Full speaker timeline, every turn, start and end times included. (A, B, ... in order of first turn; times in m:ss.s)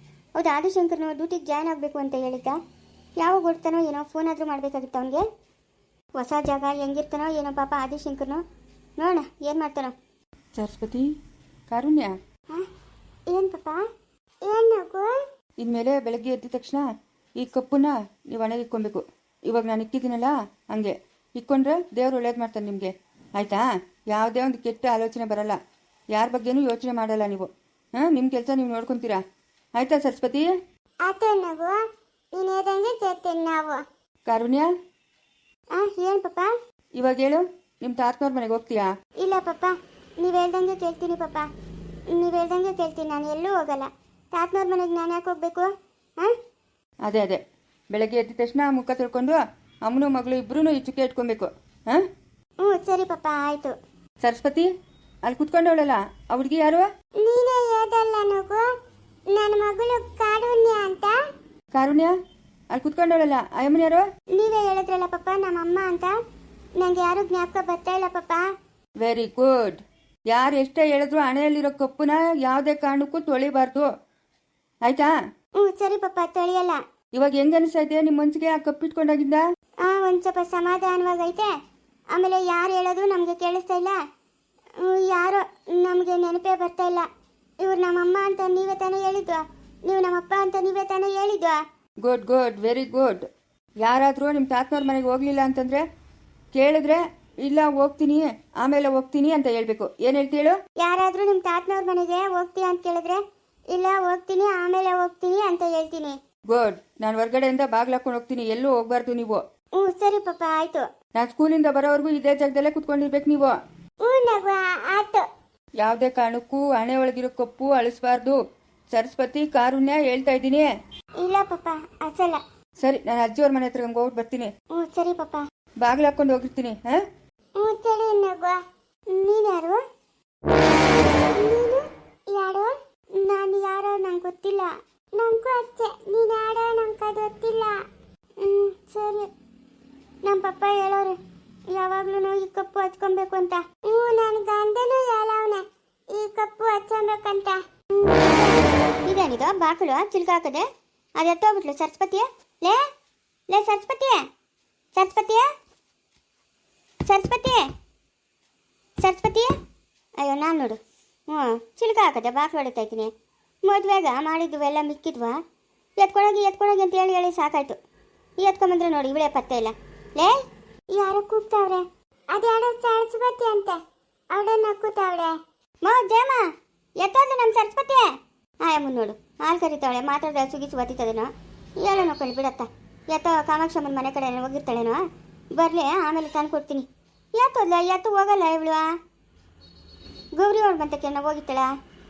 0:00.4-0:02.6 A
0:03.2-0:05.2 A
0:06.2-0:08.4 A
0:09.0-0:09.9 A
0:10.6-0:11.1 B
0:11.7-0:12.2 B
0:13.3-0:13.8 A
0:14.4-0:15.2 A
0:15.6-0:16.9 B
0:17.4-0:25.6 B
0:26.1-0:29.2 B
0:29.8-0:30.5 B
0:31.0-0:31.8 A
0:32.3-0:33.8 A
0:34.3-0:34.7 B
0:35.7-0:36.5 A
0:37.0-0:38.9 B
0:39.2-0:41.5 A
0:42.1-0:46.3 A
0:47.0-0:47.4 B
0:47.9-0:52.0 B
0:52.6-0:53.7 A
0:54.2-0:54.7 B
0:55.2-0:56.8 B
0:57.2-0:58.6 A
0:59.3-1:01.2 A
1:01.7-1:02.1 B
1:02.7-1:04.0 B
1:04.3-1:06.1 A
1:06.8-1:08.4 A
1:09.0-1:13.9 B
1:14.8-1:15.1 B
1:15.6-1:16.8 A
1:17.1-1:19.4 B
1:19.8-1:21.5 A
1:22.1-1:24.0 A
1:24.8-1:27.1 A
1:27.6-1:31.6 A
1:32.0-1:33.2 B
1:33.8-1:35.8 B
1:36.5-1:40.5 B
1:40.8-1:43.2 A
1:43.7-1:46.2 A
1:46.5-1:49.4 B
1:49.8-1:50.8 A
1:51.1-1:53.5 B
1:54.0-1:55.2 A
1:55.8-1:58.4 B
1:58.9-2:00.7 B
2:01.2-2:02.4 A
2:02.8-2:04.5 B
2:04.7-2:05.4 A
2:05.8-2:07.0 B
2:07.6-2:08.6 A
2:09.1-2:09.8 A
2:11.3-2:17.8 A
2:18.4-2:19.3 A
2:20.2-2:21.2 A
2:21.7-2:30.6 A
2:31.2-2:32.8 A
2:33.5-2:34.2 A
2:35.0-2:35.4 A
2:37.1-2:37.6 A
2:39.0-2:39.5 A
2:40.2-2:43.1 A
2:43.6-2:45.4 A
2:46.0-2:47.8 A
2:48.4-2:50.4 A
2:50.9-2:53.8 A
2:54.3-2:56.4 A
2:57.0-2:58.1 A
2:58.6-3:05.0 A
3:05.6-3:08.8 A
3:10.4-3:11.7 A